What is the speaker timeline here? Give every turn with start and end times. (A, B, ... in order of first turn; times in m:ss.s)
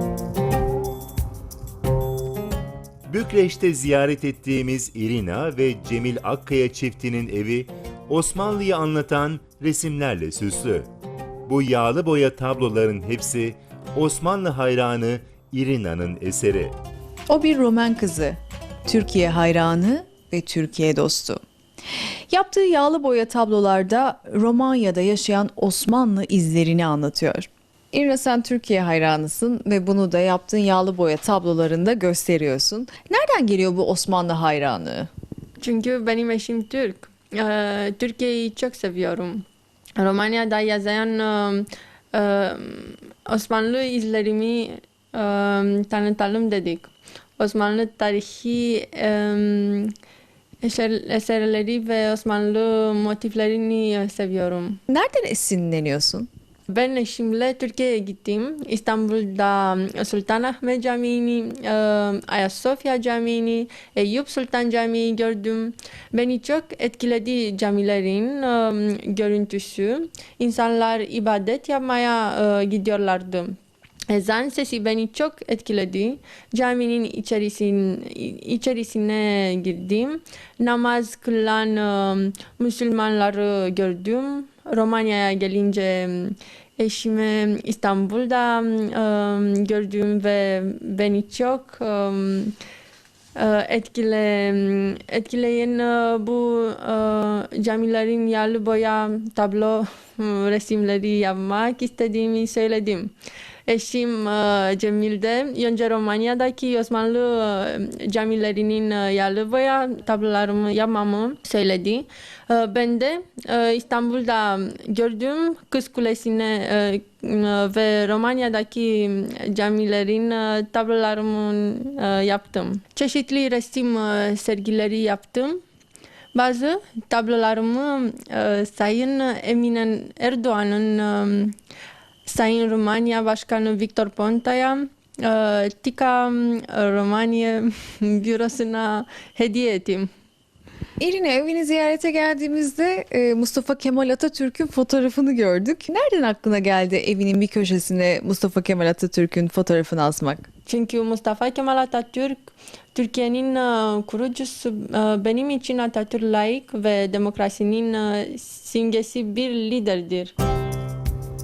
0:03.1-0:10.9 A
0:11.5-0:16.7 A
0:17.3-0:21.4 B
0:22.3-0:35.1 B
0:35.6-0:39.4 C
0:40.0-0:49.9 C
0:50.6-0:54.8 C
0:54.9-0:56.3 B
0:56.7-1:13.6 C
1:14.1-1:32.6 C
1:33.4-1:43.1 C
1:43.7-2:05.6 C
2:06.3-2:11.5 C
2:12.2-2:20.1 C
2:21.0-2:30.5 B
2:30.6-2:40.3 C